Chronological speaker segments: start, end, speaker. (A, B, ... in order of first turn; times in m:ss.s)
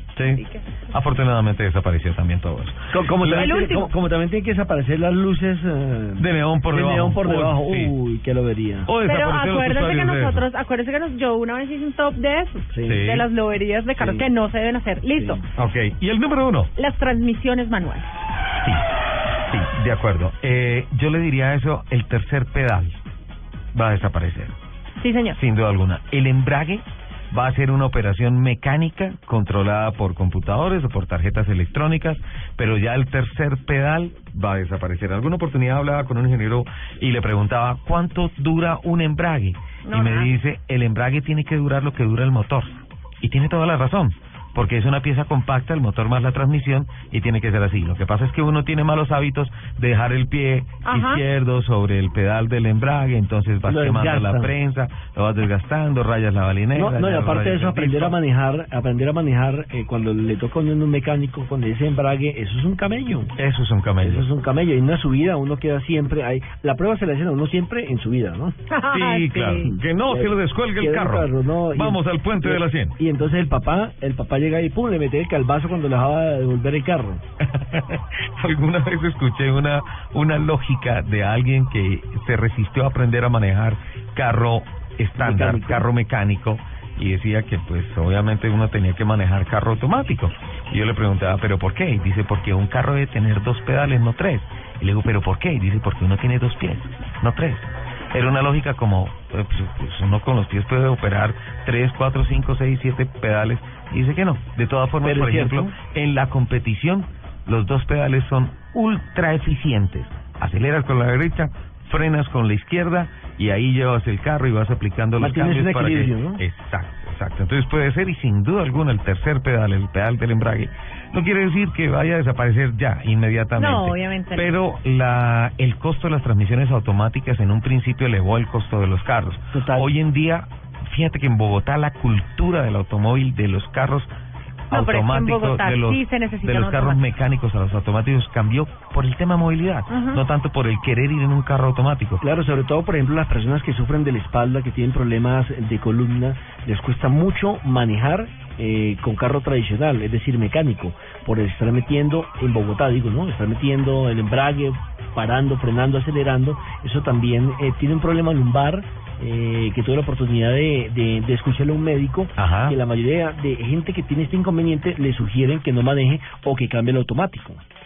0:00.2-0:00.4 A
0:00.3-0:00.7 B
0:00.9-0:03.7 A
0:02.9-0:08.9 C
0:03.3-0:03.9 B
0:06.2-0:08.0 A
0:08.9-0:10.5 A
0:09.0-0:15.4 B
0:12.7-0:13.0 C
0:12.9-0:13.3 A
0:14.0-0:14.3 C
0:15.1-0:15.4 C
0:15.6-0:16.7 A
0:16.8-0:18.1 B
0:19.5-0:23.0 A
0:23.7-0:24.6 A
0:25.0-0:25.4 B
0:25.4-0:58.2 A
0:39.8-0:40.3 B
0:50.8-0:51.2 B
0:53.7-0:54.6 C
0:56.8-1:03.3 C
1:03.4-1:04.3 A
1:04.0-1:08.6 C
1:08.7-1:09.7 B
1:08.9-1:13.0 A
1:09.6-1:17.2 C
1:17.5-2:14.1 A
1:25.2-1:25.8 C
1:45.0-1:45.7 C
1:55.2-1:56.4 C
2:03.6-2:04.6 B
2:09.5-2:09.9 C
2:14.7-2:22.2 A
2:14.7-2:17.0 B
2:19.9-2:20.2 B
2:22.2-2:47.6 C
2:42.4-2:42.8 A